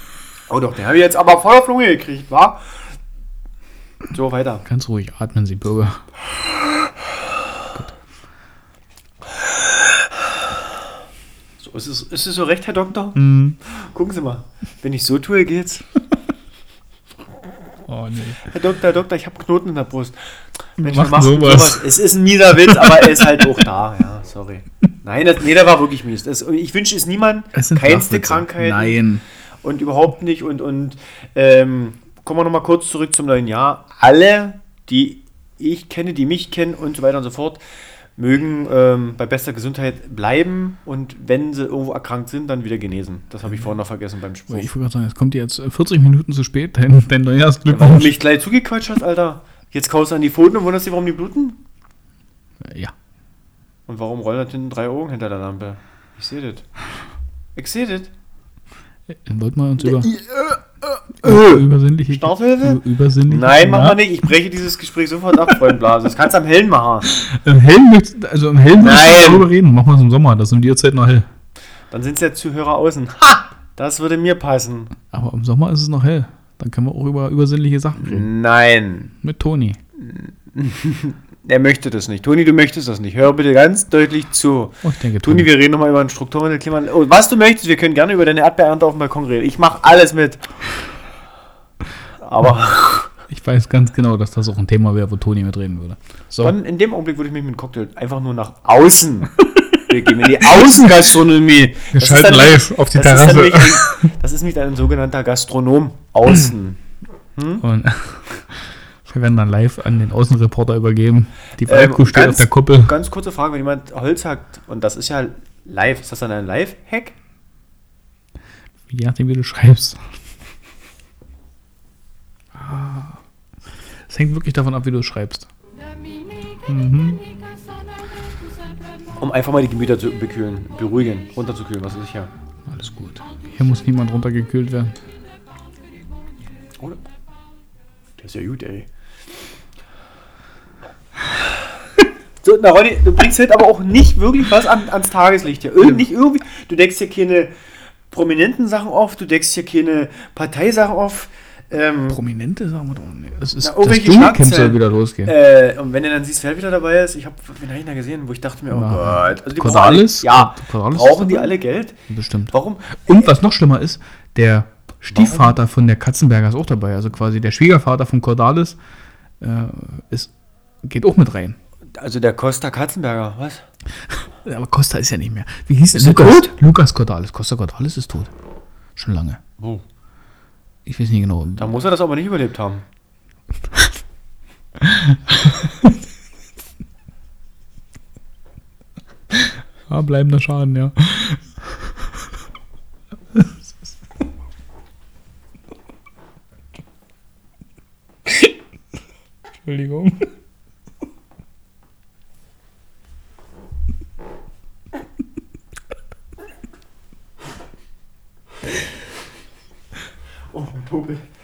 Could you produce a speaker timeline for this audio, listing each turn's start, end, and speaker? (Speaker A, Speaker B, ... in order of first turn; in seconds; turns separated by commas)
Speaker A: 0.5-2.7, Speaker A: 4.1-4.6, Speaker B: 4.6-6.0, Speaker A: 11.6-15.8, Speaker B: 13.1-13.6, Speaker B: 17.9-18.4, Speaker A: 18.4-20.2, Speaker A: 20.8-29.0, Speaker B: 20.8-21.9, Speaker B: 22.6-23.4, Speaker B: 27.5-29.2, Speaker A: 29.6-37.6, Speaker A: 38.2-44.7, Speaker B: 44.5-48.2, Speaker A: 47.7-51.6, Speaker B: 52.6-52.9, Speaker A: 53.9-56.6, Speaker A: 57.6-58.1, Speaker B: 59.1-60.1, Speaker A: 59.8-67.1, Speaker B: 61.2-64.1, Speaker B: 67.1-71.3, Speaker A: 68.8-69.5, Speaker A: 71.9-74.9, Speaker B: 75.1-78.3, Speaker A: 78.0-79.1, Speaker B: 79.2-79.8, Speaker A: 80.0-90.4, Speaker B: 84.8-85.5, Speaker A: 92.2-93.1, Speaker B: 93.3-96.5, Speaker A: 96.4-106.8, Speaker B: 99.6-99.8, Speaker B: 100.4-100.9, Speaker B: 101.9-104.1, Speaker A: 107.4-107.6, Speaker B: 107.6-113.0, Speaker A: 111.6-117.2, Speaker B: 118.9-120.0, Speaker B: 122.5-123.2, Speaker B: 124.1-125.5, Speaker B: 126.7-127.2, Speaker A: 129.2-132.3, Speaker B: 132.7-135.0, Speaker A: 138.2-138.9, Speaker A: 142.4-147.5, Speaker A: 148.1-152.2, Speaker B: 152.1-155.3, Speaker A: 153.6-162.0, Speaker B: 158.7-161.6, Speaker B: 162.1-162.5, Speaker A: 162.5-163.3, Speaker B: 163.1-168.8, Speaker A: 165.1-165.6, Speaker B: 169.4-170.3, Speaker B: 170.8-171.6, Speaker A: 172.0-173.6, Speaker B: 174.4-178.3, Speaker A: 175.9-176.5, Speaker B: 179.0-179.4, Speaker B: 180.9-181.7, Speaker A: 181.6-182.8, Speaker B: 184.8-186.0, Speaker B: 189.3-191.6, Speaker B: 193.3-193.6, Speaker B: 198.3-198.5, Speaker B: 199.6-200.3, Speaker A: 210.5-211.2